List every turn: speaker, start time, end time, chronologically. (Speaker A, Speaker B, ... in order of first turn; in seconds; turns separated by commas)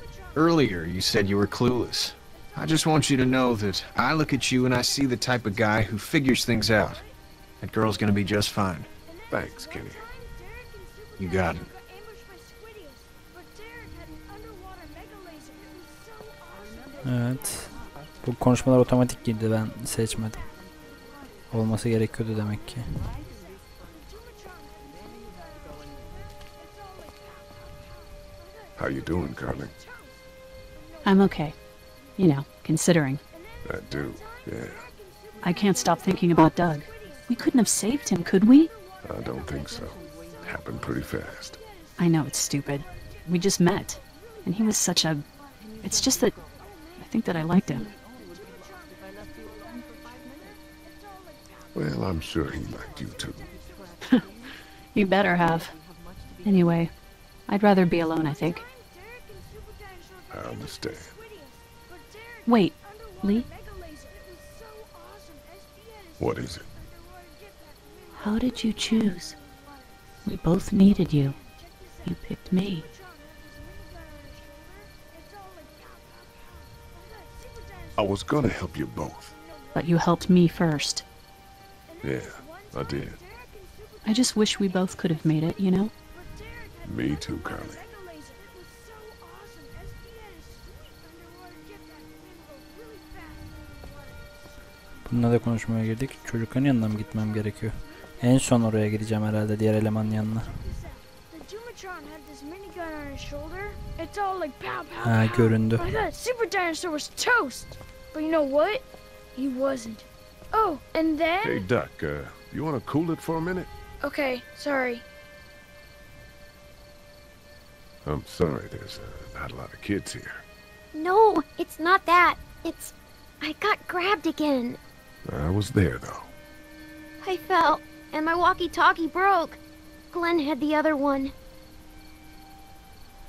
Speaker A: 0.3-7.0, Speaker A: 7.6-8.9, Speaker B: 9.3-10.1, Speaker A: 11.2-11.7, Speaker C: 17.1-20.4, Speaker C: 21.5-22.8, Speaker B: 28.8-29.7, Speaker D: 31.0-31.6, Speaker D: 32.2-33.2, Speaker B: 33.6-34.9, Speaker D: 35.4-38.7, Speaker B: 39.0-41.6, Speaker D: 42.0-45.2, Speaker D: 45.8-46.4, Speaker D: 47.0-47.9, Speaker B: 51.7-53.5, Speaker D: 54.9-55.7, Speaker D: 56.4-56.9, Speaker D: 57.5-58.6, Speaker B: 60.3-61.2, Speaker D: 62.5-63.5, Speaker B: 66.2-66.7, Speaker D: 68.6-69.3, Speaker D: 70.2-71.3, Speaker D: 72.0-72.9, Speaker B: 78.0-79.3, Speaker D: 79.7-81.0, Speaker B: 82.0-83.2, Speaker D: 84.0-85.9, Speaker B: 86.8-87.8, Speaker C: 95.1-100.6, Speaker E: 101.3-111.7, Speaker C: 105.0-105.8, Speaker B: 111.4-113.7, Speaker E: 114.0-115.0, Speaker B: 118.0-120.4, Speaker F: 120.9-124.8, Speaker B: 125.2-126.3, Speaker F: 127.2-129.6, Speaker F: 130.1-131.3